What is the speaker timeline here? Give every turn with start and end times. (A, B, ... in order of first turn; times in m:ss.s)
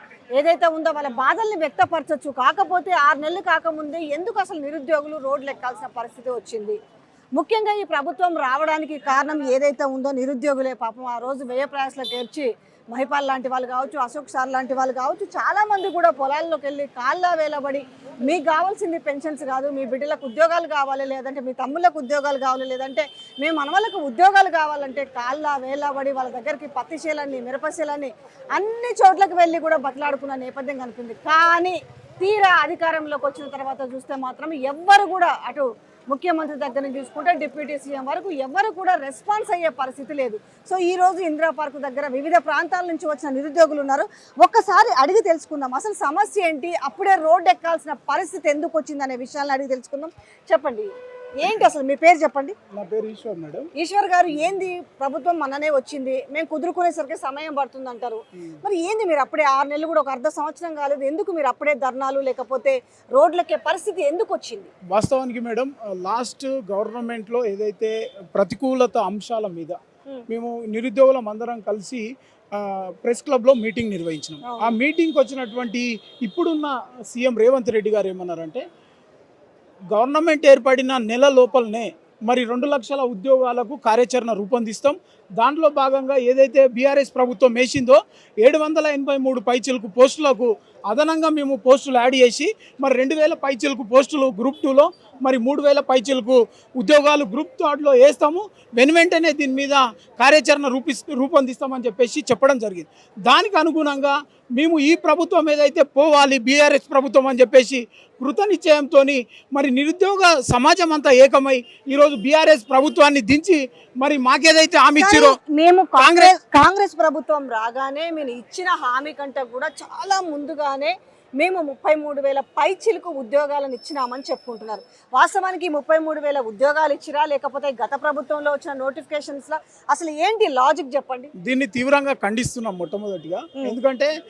0:00.3-0:06.8 A
0:07.4-0:52.5 A
0:52.7-0:53.7 B
0:53.8-1:04.7 A
1:04.9-1:09.8 B
1:10.3-1:12.0 B
1:12.5-1:18.6 B
1:14.4-1:14.7 A
1:19.9-1:55.4 B
1:55.0-2:11.3 A
1:56.0-1:56.3 B
2:11.4-2:14.1 B